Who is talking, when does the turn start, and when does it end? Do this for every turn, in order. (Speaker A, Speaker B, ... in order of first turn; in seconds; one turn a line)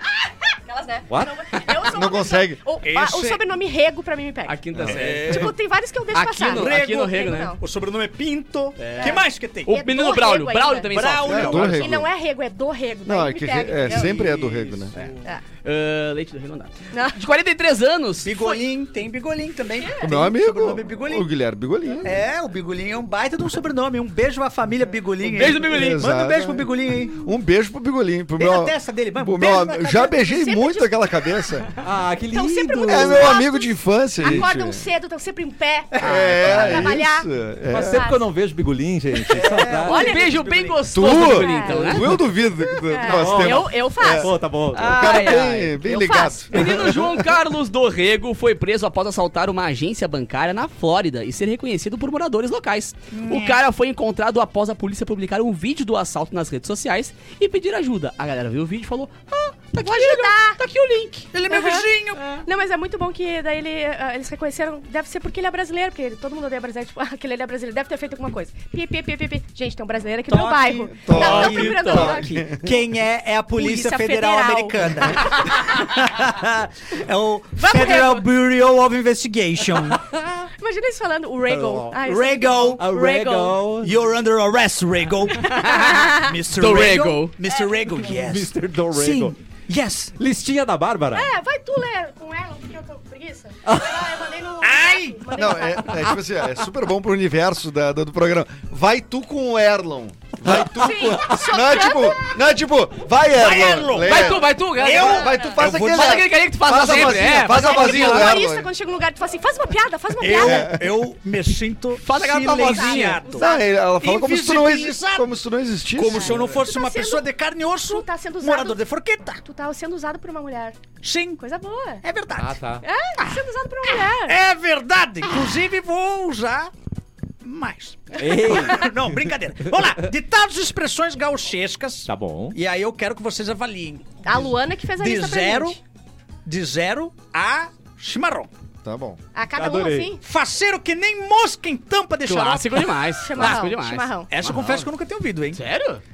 Speaker A: 0.2-7.6
Speaker B: 1.1-1.4
Speaker C: 1.5-1.8
Speaker D: 1.9-2.6
Speaker E: 2.8-3.5
Speaker C: 4.5-5.5
Speaker E: 4.8-5.5
Speaker C: 6.1-7.5
Speaker E: 6.4-9.8
Speaker C: 8.8-11.7
Speaker A: 8.9-10.9
Speaker E: 10.9-12.0
Speaker D: 11.2-12.1
Speaker A: 11.5-14.2
Speaker D: 13.1-14.9
Speaker E: 13.8-15.3
Speaker C: 15.6-18.3
Speaker A: 16.9-17.2
Speaker E: 18.2-21.3
Speaker A: 19.8-20.1
Speaker D: 20.0-22.1
Speaker E: 22.0-27.3
Speaker C: 25.3-26.0
Speaker D: 25.6-31.7
Speaker E: 28.4-30.1
Speaker A: 30.1-31.4
Speaker B: 31.8-33.4
Speaker A: 32.3-38.2
Speaker D: 32.9-34.9
Speaker D: 36.0-38.1
Speaker C: 36.0-36.9
Speaker B: 36.4-36.8
Speaker B: 37.7-40.0
Speaker E: 39.3-40.8
Speaker A: 39.8-40.4
Speaker C: 39.9-42.2
Speaker D: 40.9-47.2
Speaker A: 41.1-44.4
Speaker B: 43.0-45.2
Speaker C: 44.7-45.8
Speaker A: 45.0-46.7
Speaker C: 46.5-61.3
Speaker E: 53.1-53.6
Speaker A: 59.8-60.6
Speaker E: 61.3-62.2
Speaker A: 61.5-61.9
Speaker A: 62.4-72.4
Speaker E: 70.3-80.0
Speaker D: 71.0-72.8
Speaker C: 71.1-72.2
Speaker A: 73.5-75.5
Speaker A: 77.6-78.2
Speaker B: 79.9-80.4
Speaker A: 80.5-83.6
Speaker B: 81.5-82.0
Speaker E: 82.0-90.1
Speaker B: 82.8-83.9
Speaker A: 85.4-86.3
Speaker C: 85.5-87.3
Speaker B: 88.1-89.3
Speaker B: 90.2-91.3
Speaker A: 91.1-96.2
Speaker B: 93.7-94.1
Speaker E: 94.6-95.3
Speaker D: 95.3-108.7
Speaker A: 100.6-102.3
Speaker E: 103.3-106.3
Speaker C: 104.0-108.3
Speaker A: 104.9-105.6
Speaker A: 107.4-110.8
Speaker E: 110.2-115.3
Speaker D: 110.3-110.9
Speaker C: 112.0-113.3
Speaker A: 112.5-113.7
Speaker D: 113.4-116.4
Speaker E: 115.9-119.4
Speaker A: 116.1-117.3
Speaker A: 117.9-118.8
Speaker A: 119.4-120.8
Speaker E: 121.0-121.4
Speaker A: 121.4-122.0
Speaker E: 122.0-122.6
Speaker B: 122.4-122.8
Speaker A: 122.8-124.4
Speaker E: 124.0-126.7
Speaker E: 127.4-135.8
Speaker B: 128.2-129.1
Speaker A: 128.3-128.7
Speaker B: 129.7-129.9
Speaker B: 132.1-132.6
Speaker A: 134.2-135.8
Speaker E: 136.4-138.5
Speaker D: 138.8-139.2
Speaker A: 139.3-140.2
Speaker B: 139.6-140.1
Speaker E: 140.2-143.6
Speaker C: 142.2-144.9
Speaker A: 143.2-144.3
Speaker E: 144.3-145.6
Speaker C: 145.5-146.0